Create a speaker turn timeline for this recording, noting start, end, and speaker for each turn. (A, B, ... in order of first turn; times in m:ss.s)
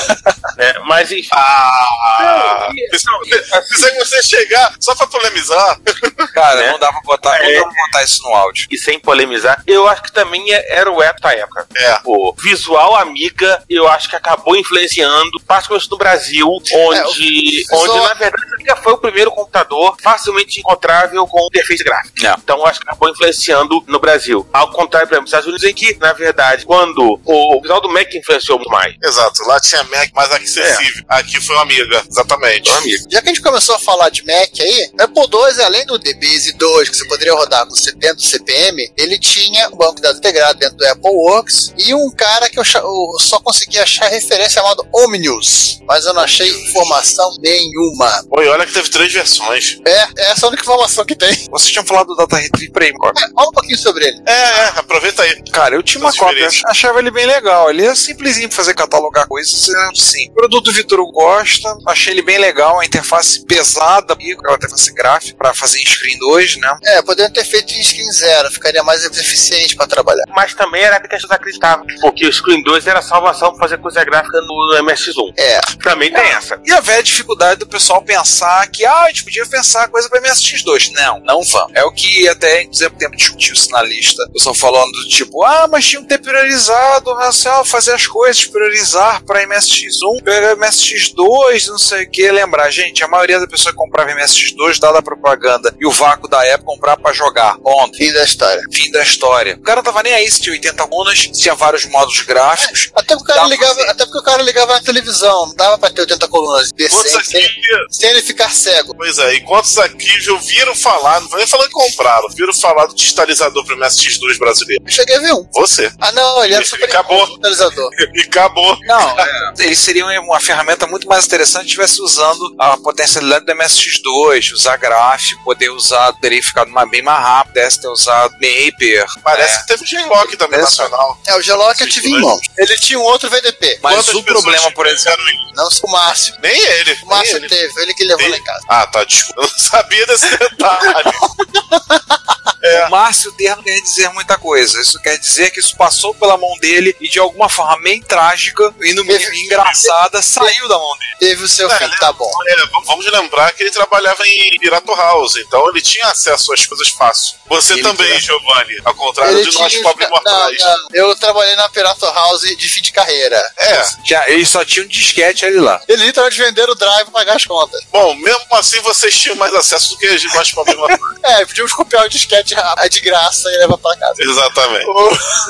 0:00.6-0:01.4 A
0:01.3-0:06.3 B
0:02.2-0:03.8 A
0:06.3-0:08.6 C
0:06.5-0:06.8 A
0:07.3-0:07.7 A
0:08.7-0:29.0 A
0:11.7-0:12.0 B
0:16.9-0:18.1 D
0:29.0-0:32.8 B
0:30.6-0:30.8 A
0:32.6-0:33.0 A
0:33.1-0:48.2 D
0:46.2-0:46.9 B
0:48.3-0:49.8 B
0:49.8-0:51.4 D
0:51.5-0:53.2 C
0:53.2-0:54.2 D
0:54.2-0:55.4 B
0:55.5-1:06.8 C
0:56.0-0:56.6 B
1:06.8-1:10.3 D
1:10.3-1:16.6 A
1:15.4-1:15.7 D
1:16.1-1:38.0 C
1:38.0-1:38.6 D
1:38.7-1:43.9 C
1:42.6-1:48.9 D
1:46.9-1:47.8 B
1:49.0-1:54.8 B
1:54.8-1:55.5 D
1:55.5-1:56.0 B
1:56.0-1:57.9 D
1:56.5-1:57.3 B
1:58.0-1:59.3 B
1:58.8-2:09.6 C
2:09.2-2:12.3 B
2:10.3-2:10.9 C
2:11.3-2:13.8 D
2:13.8-2:15.1 C
2:13.9-2:15.4 B
2:15.5-2:16.4 D
2:16.4-2:17.5 B
2:17.0-2:18.6 D
2:18.2-2:21.2 B
2:20.8-2:22.3 D
2:22.6-2:22.9 B
2:22.7-2:31.1 C
2:29.1-2:30.5 D
2:31.2-2:32.4 D
2:31.6-2:40.7 B
2:37.7-2:38.2 C
2:39.2-2:43.8 D
2:43.6-2:43.9 B
2:44.0-2:45.8 C
2:45.9-2:47.8 D
2:47.9-2:51.0 B
2:51.2-2:54.2 D
2:54.2-2:54.9 B
2:54.8-2:55.2 D